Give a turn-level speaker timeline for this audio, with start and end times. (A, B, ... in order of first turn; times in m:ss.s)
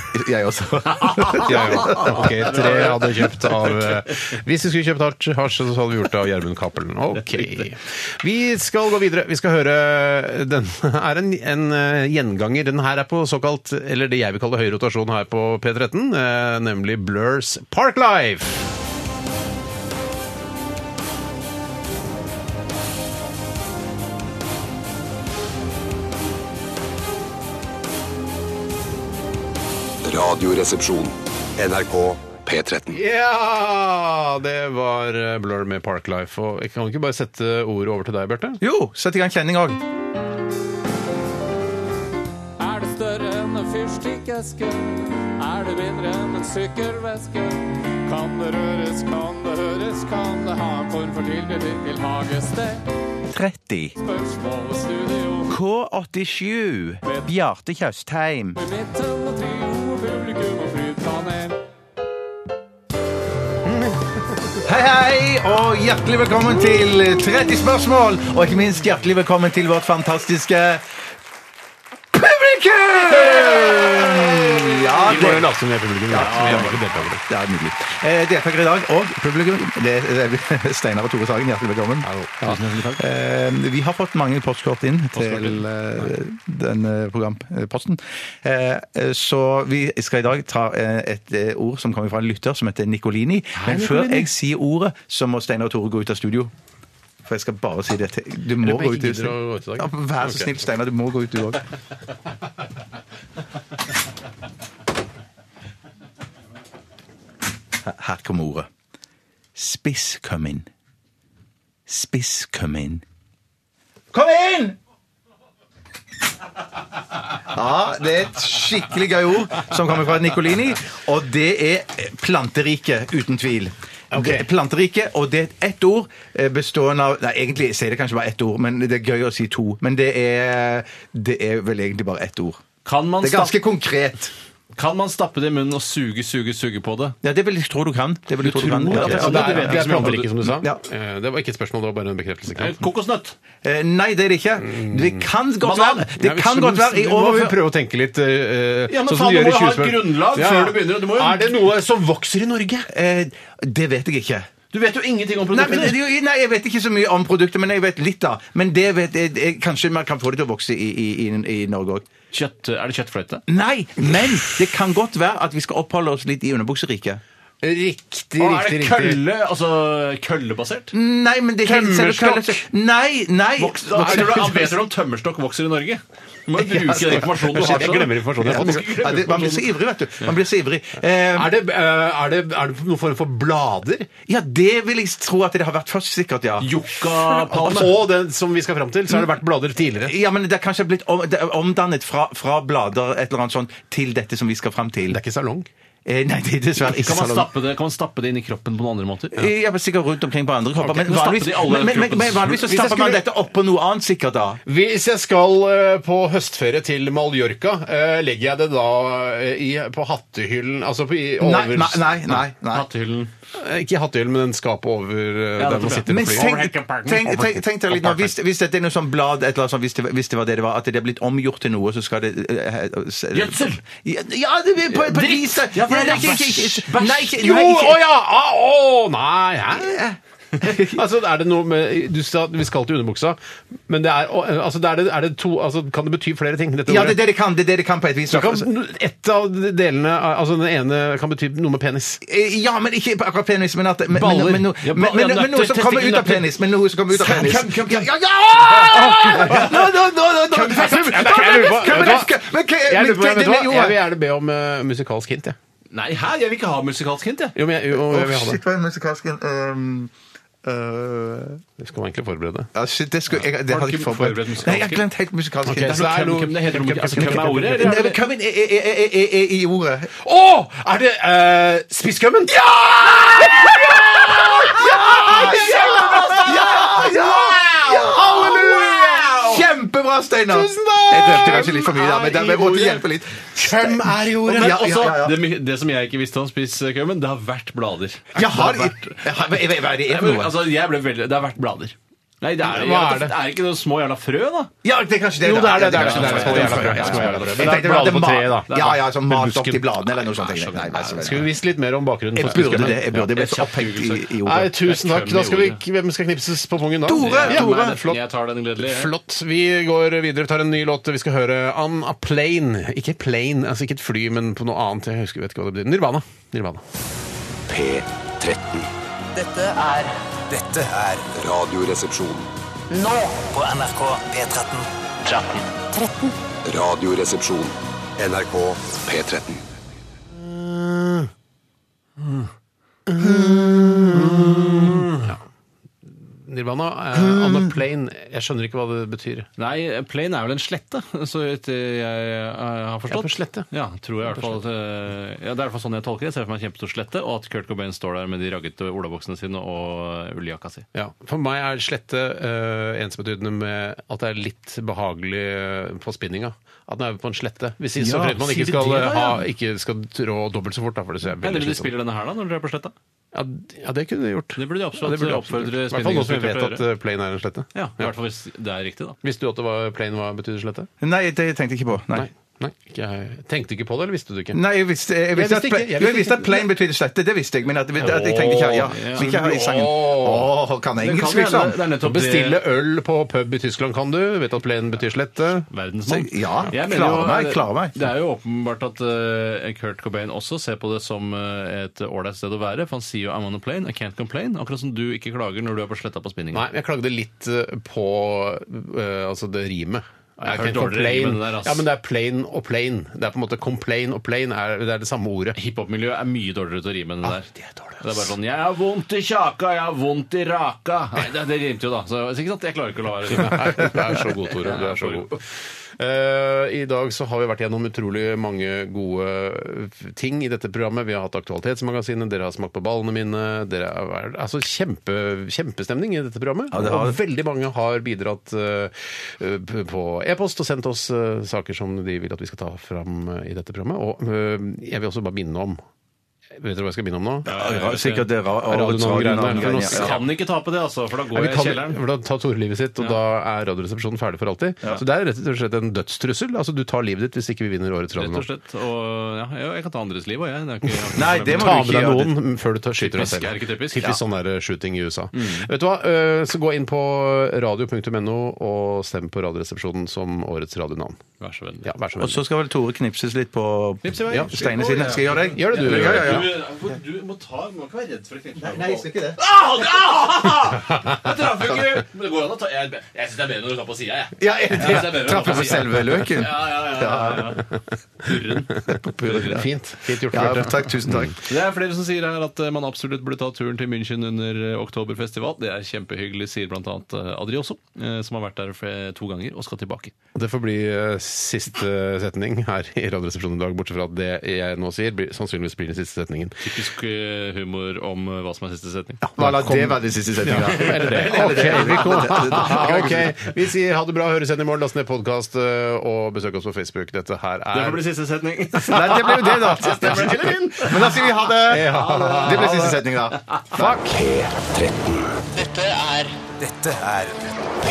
0:00.1-0:02.9 A
0:01.1-0:02.9 B
0:01.4-0:18.6 C
0:30.0-0:33.0 D
0:32.9-0:38.6 C
0:38.6-0:39.8 A
0:42.6-0:52.8 E
0:53.3-0:54.0 A
0:54.0-0:55.5 E
0:55.5-0:58.6 A
0:58.6-1:01.6 E
1:03.7-1:04.6 C
1:04.6-1:10.8 A
1:12.1-1:15.5 A
1:13.5-1:17.2 C
1:15.1-1:15.4 B
1:16.1-1:36.5 A
1:16.1-1:16.8 B
1:22.0-1:22.4 C
1:22.4-1:23.0 B
1:25.1-1:25.6 B
1:33.6-1:34.3 C
1:37.3-1:41.6 A
1:38.6-1:40.6 C
1:47.8-1:48.7 A
1:49.6-1:50.7 A
1:51.9-1:53.0 A
1:54.1-1:54.8 A
1:57.4-2:12.6 A
2:04.1-2:04.5 C
2:12.8-2:13.6 B
2:13.2-2:14.3 A
2:14.8-2:17.2 B
2:17.2-2:20.8 A
2:18.4-2:22.8 C
2:18.9-2:20.4 B
2:22.5-2:23.4 B
2:23.6-2:27.6 A
2:24.7-2:25.2 C
2:25.6-2:26.1 B
2:26.1-2:32.9 C
2:28.9-2:31.6 B
2:32.9-2:34.5 A
2:34.7-2:36.0 B
2:35.5-2:42.1 A
2:42.3-2:43.4 B
2:43.5-2:47.2 A
2:47.6-2:49.2 C
2:48.4-2:50.9 B
2:50.9-2:54.4 A
2:51.6-2:52.6 C
2:53.6-2:59.6 B
2:54.0-2:54.7 C
2:56.7-2:57.8 A
2:56.8-2:59.2 C
2:58.4-3:01.5 A
3:01.4-3:04.1 C
3:04.3-3:07.8 A
3:06.6-3:07.9 B
3:07.3-3:10.1 C
3:10.0-3:15.2 A
3:15.1-3:15.7 C
3:16.1-3:17.5 A
3:16.9-3:19.5 B
3:19.4-3:24.6 A
3:20.9-3:22.6 B
3:22.5-3:23.2 C
3:24.7-3:32.2 C
3:31.4-3:32.9 A
3:32.7-3:33.3 B
3:33.6-3:37.6 C
3:35.6-3:37.3 B
3:36.1-3:48.0 A
3:43.3-3:43.8 B
3:44.9-3:47.1 B
3:47.0-3:50.0 C
3:49.7-3:51.0 A
3:50.6-3:53.4 C
3:53.9-3:57.2 C
3:56.9-3:58.7 A
3:58.3-4:02.2 C
4:02.2-4:14.0 A
4:04.1-4:04.7 C
4:04.8-4:06.5 B
4:07.1-4:09.7 B
4:08.9-4:09.9 C
4:10.5-4:15.6 C
4:15.9-4:17.6 B
4:17.6-4:18.6 C
4:17.9-4:20.1 A
4:20.6-4:21.6 A
4:21.8-4:22.7 C
4:22.8-4:26.1 A
4:23.3-4:25.0 B
4:25.7-4:28.1 C
4:25.9-4:28.2 B
4:27.3-4:30.1 A
4:30.2-4:39.7 C
4:32.5-4:45.4 A
4:40.5-4:43.0 C
4:43.6-4:45.1 C
4:44.5-4:49.2 B
4:48.4-4:50.6 A
4:50.1-4:54.7 B
4:52.6-4:53.4 C
4:54.8-5:01.5 A
4:55.4-4:59.9 C
4:55.8-4:57.9 B
5:00.3-5:01.5 B
5:01.2-5:03.3 C
5:02.4-5:04.7 A
5:02.4-5:05.8 B
5:04.4-5:08.2 C
5:07.0-5:08.0 A
5:07.2-5:09.1 B
5:08.8-5:16.8 C
5:17.7-5:18.9 D
5:19.3-5:21.3 F
5:21.3-5:22.5 D
5:22.9-5:26.4 F
5:26.6-5:29.6 D
5:30.3-5:31.3 C
5:33.1-5:35.4 C
5:33.2-5:34.8 A
5:36.1-5:39.5 C
5:37.2-5:37.7 A
5:39.6-5:50.9 B
5:43.1-5:43.7 C
5:44.3-5:44.6 C
5:50.9-6:01.9 C
5:58.0-5:59.4 B
6:01.4-6:03.0 B
6:03.3-6:08.1 C
6:04.6-6:06.8 B
6:07.8-6:09.2 B
6:09.2-6:10.9 C
6:11.0-6:12.3 A
6:12.1-6:14.6 C
6:14.5-6:21.8 A
6:15.3-6:16.7 C
6:18.0-6:20.5 C
6:18.9-6:19.3 B
6:21.0-6:22.6 B
6:22.0-6:25.7 C
6:25.7-6:36.6 B
6:26.1-6:28.0 A
6:36.5-6:45.6 C
6:40.4-6:41.8 B
6:45.6-6:47.5 B
6:47.2-6:48.3 C
6:48.0-6:54.0 B
6:53.3-6:55.4 C
6:54.6-6:55.4 B
6:56.0-7:15.8 C
7:06.7-7:07.2 A
7:16.6-7:17.5 C
7:17.4-7:20.2 A
7:17.5-7:18.3 B
7:18.7-7:20.3 C
7:19.5-7:22.0 B
7:21.3-7:28.5 C
7:28.2-7:32.0 B
7:31.1-7:32.3 A
7:31.4-7:41.2 C
7:33.0-7:34.2 B
7:35.3-7:35.7 B
7:41.4-7:41.9 B
7:41.8-7:42.4 C
7:42.2-7:46.5 A
7:44.0-7:57.7 B
7:45.5-7:46.5 C
7:48.6-7:49.4 A
7:54.4-7:57.5 A
7:58.2-7:59.6 B
7:59.0-7:59.7 A
7:59.3-8:01.3 C
8:00.3-8:01.4 A
8:01.4-8:10.1 B
8:10.4-8:16.6 C
8:16.6-8:19.2 B
8:19.4-8:23.3 A
8:19.4-8:28.1 C
8:20.5-8:23.1 B
8:27.7-8:31.1 B
8:28.9-8:34.0 A
8:28.9-8:30.8 C
8:31.5-8:33.0 C
8:31.8-8:33.8 B
8:34.6-8:35.2 D
8:35.5-8:37.5 F